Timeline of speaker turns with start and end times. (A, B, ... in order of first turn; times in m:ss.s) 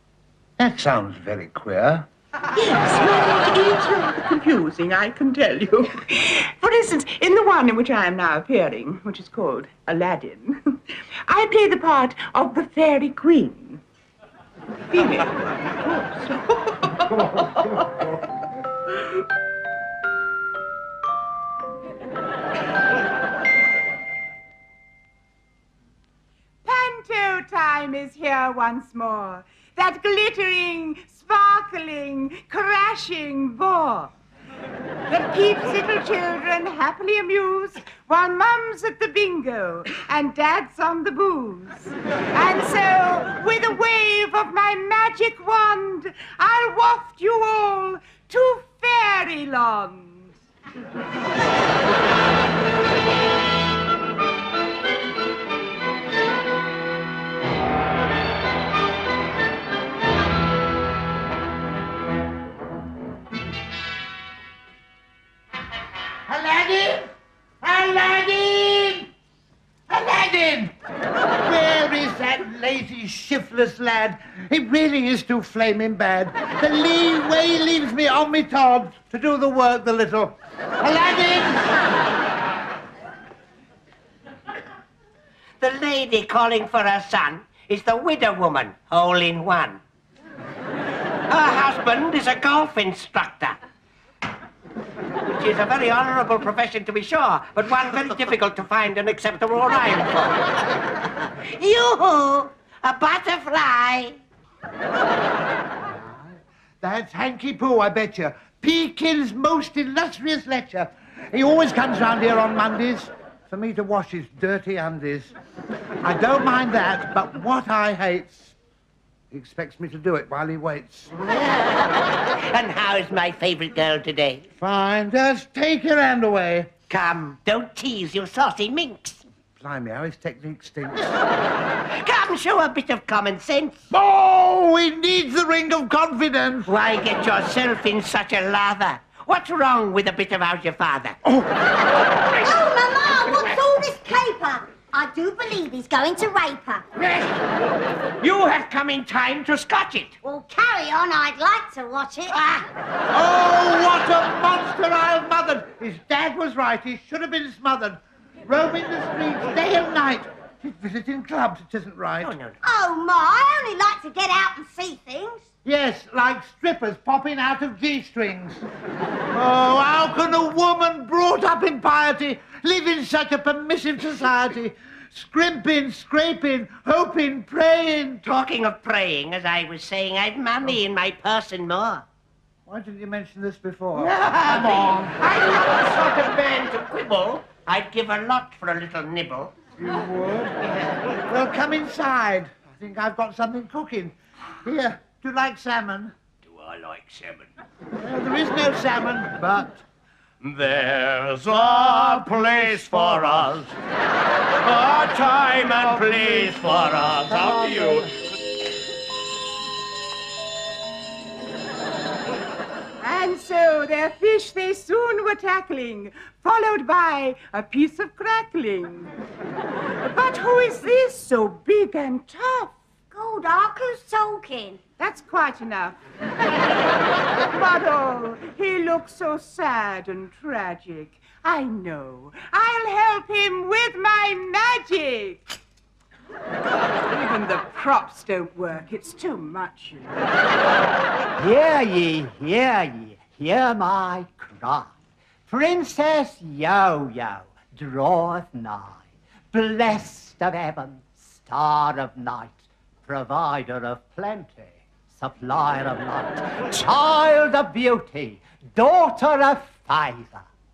0:00.6-0:02.1 A
0:02.5-0:13.8 B
0:14.9-0:17.6 B
0:26.6-0:34.1 B
0:35.1-0:50.4 B
1:06.3-1:09.1 A
1:09.9-1:10.7 A
1:11.3-1:21.7 A
1:25.6-1:29.8 C
1:31.3-1:33.6 C
1:35.2-1:40.4 C
1:41.5-1:44.2 C
1:45.8-1:55.3 A
1:56.0-1:58.6 A
1:59.3-2:01.1 A
2:02.5-2:04.4 C
2:04.6-2:06.7 A
2:06.9-2:09.2 C
2:09.6-2:11.2 A
2:12.0-2:13.9 C
2:13.9-2:16.7 A
2:16.6-2:21.2 C
2:21.2-2:21.5 A
2:22.4-2:26.9 D
2:28.2-2:30.2 C
2:30.2-2:32.4 D
2:32.3-2:32.6 C
2:33.1-2:42.3 A
2:42.2-2:42.6 C
2:42.6-2:45.4 D
2:45.6-2:48.6 A
2:49.3-2:58.2 A
2:58.2-3:02.0 C
3:02.6-3:05.2 A
3:04.0-3:09.5 C
3:09.8-3:10.6 A
3:11.2-3:16.1 A
3:16.5-3:17.4 E
3:18.0-3:19.8 A
3:20.4-3:23.8 E
3:24.6-3:28.1 E
3:33.0-3:39.1 B
3:40.0-3:42.8 B
3:43.1-3:44.8 D
3:45.0-3:46.0 B
3:47.5-3:55.4 B
3:57.1-4:00.2 B
4:01.4-4:04.9 F
4:05.5-4:09.0 F
4:09.5-4:20.4 F